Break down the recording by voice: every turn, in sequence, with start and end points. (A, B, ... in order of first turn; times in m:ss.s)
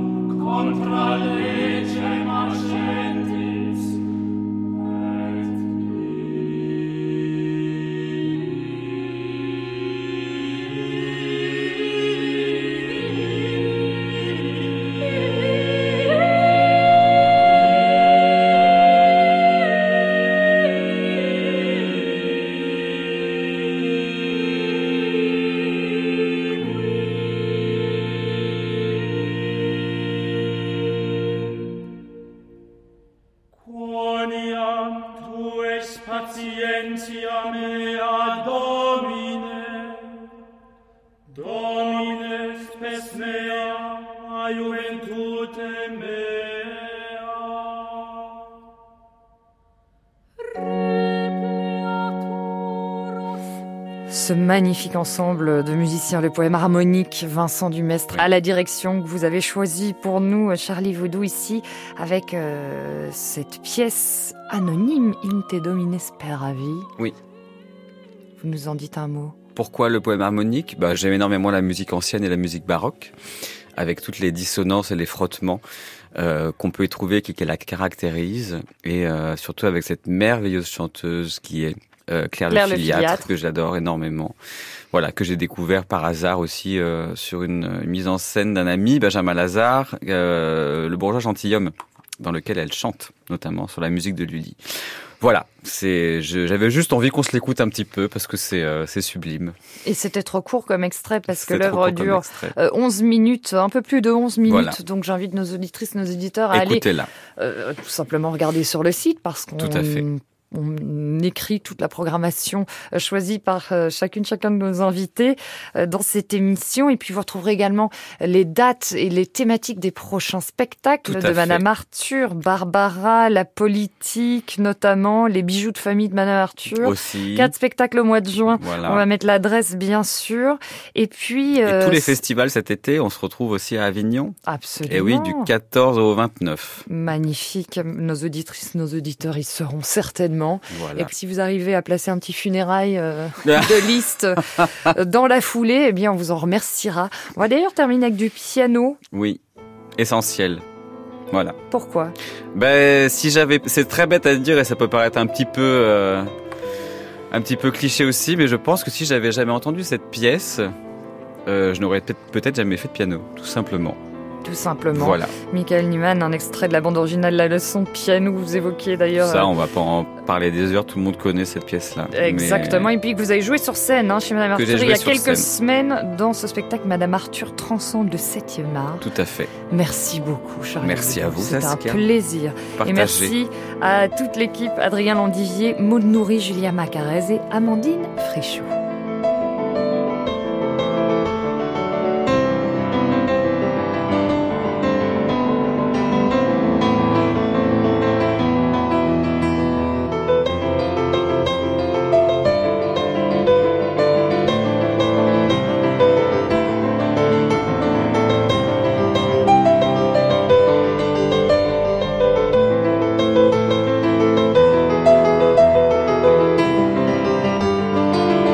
0:00.5-0:02.2 A
0:54.1-1:06.9 B
1:08.4-1:09.4 B
1:09.6-1:13.1 A
1:13.8-1:15.6 A
1:16.2-1:24.4 A
1:22.5-1:23.3 B
1:24.9-1:39.6 A
1:39.8-1:46.8 B
1:41.3-1:42.5 A
1:44.5-1:44.8 A
1:46.5-1:47.1 A
1:47.4-2:12.2 B
1:49.6-1:50.0 A
2:01.1-2:01.6 A
2:06.7-2:07.5 A
2:08.5-2:09.0 A
2:11.6-2:16.8 A
2:14.4-2:15.5 B
2:16.9-2:29.0 B
2:20.7-2:21.1 A
2:23.4-2:23.9 A
2:29.1-2:29.4 A
2:30.0-2:30.6 A
2:31.3-2:31.6 A
2:31.7-2:32.2 B
2:32.5-2:36.3 A
2:37.3-2:40.7 A
2:41.4-2:44.0 A
2:44.4-2:49.5 B
2:44.9-2:45.3 A
2:49.2-2:52.9 A
2:52.1-2:59.1 B
2:54.6-2:55.5 A
2:59.0-2:59.5 A
2:59.7-3:08.8 B
3:00.8-3:02.0 A
3:02.8-3:03.4 A